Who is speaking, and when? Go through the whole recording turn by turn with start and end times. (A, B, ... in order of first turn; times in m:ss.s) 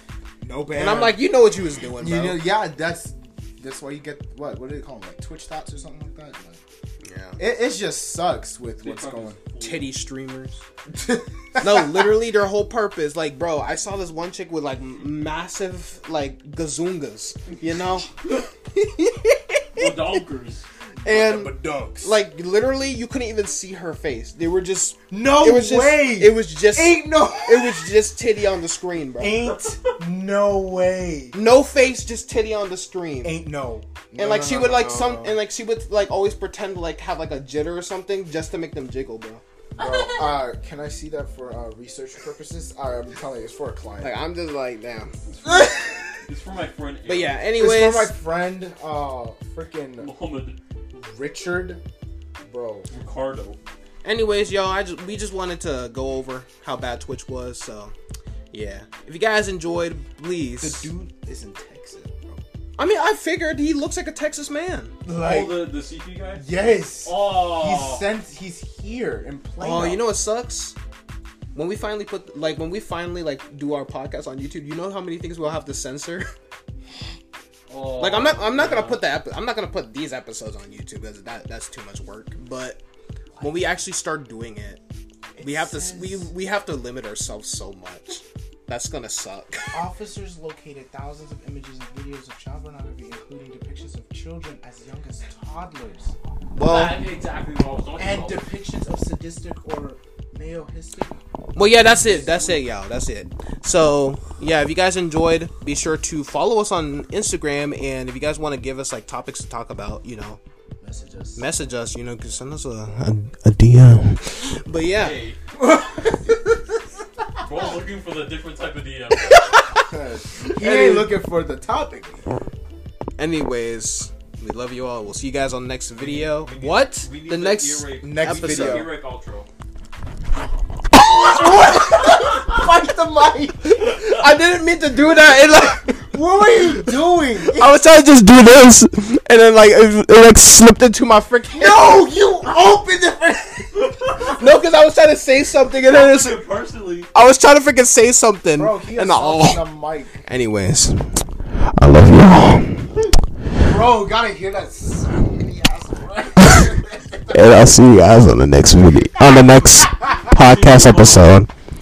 0:00.4-0:01.2 A
0:00.7-0:02.4 B
0:02.0-0:06.6 A
0:07.0-0:07.4 B
0:07.4-0:09.4 A
0:08.8-0:09.9 C
0:09.6-0:10.6 B
0:10.9-0:12.2 A
0:11.6-0:20.0 B
0:19.8-0:20.6 C
0:21.0-0:29.5 B
0:21.0-0:22.2 A
0:25.1-0:27.9 A
0:29.2-0:31.4 A
0:31.3-0:33.4 B
0:33.2-0:35.4 A
0:34.2-0:39.4 B
0:39.7-0:44.2 A
0:44.0-0:45.1 B
0:45.3-0:47.4 C
0:45.4-0:46.0 A
0:47.1-0:48.1 B
0:47.6-0:50.1 A
0:50.0-0:50.6 C
0:50.9-0:51.8 A
0:52.4-0:52.9 A
0:52.9-0:53.6 C
0:54.0-0:57.9 B
0:58.5-1:00.9 B
1:00.6-1:02.4 A
1:02.8-1:04.9 B
1:05.0-1:05.7 A
1:05.1-1:08.1 C
1:06.3-1:10.0 A
1:09.6-1:10.8 B
1:11.5-1:16.3 B
1:17.7-1:19.0 C
1:18.0-1:22.8 B
1:23.4-1:24.8 B
1:25.3-1:26.3 A
1:25.4-1:29.8 B
1:29.7-1:36.2 A
1:36.6-1:37.0 B
1:36.6-1:38.4 C
1:38.0-1:42.6 A
1:41.5-1:50.4 B
1:50.8-1:51.4 A
1:51.4-1:55.2 B
1:55.0-1:55.4 C
1:55.6-1:56.6 A
1:57.4-1:59.4 C
1:59.3-1:59.9 B
1:59.8-2:02.2 A
2:00.4-2:01.1 B
2:03.2-2:08.9 B
2:06.0-2:09.5 C
2:08.0-2:08.9 A
2:11.0-2:14.0 A
2:13.6-2:22.1 B
2:15.9-2:17.7 A
2:21.5-2:23.9 A
2:23.8-2:24.4 C
2:24.3-2:26.4 B
2:25.9-2:27.1 C
2:27.1-2:29.6 B
2:28.6-2:30.2 A
2:30.2-2:33.1 B
2:33.5-2:37.7 A
2:36.4-2:36.7 B
2:37.3-2:41.5 B
2:39.2-2:40.2 A
2:40.2-2:41.3 C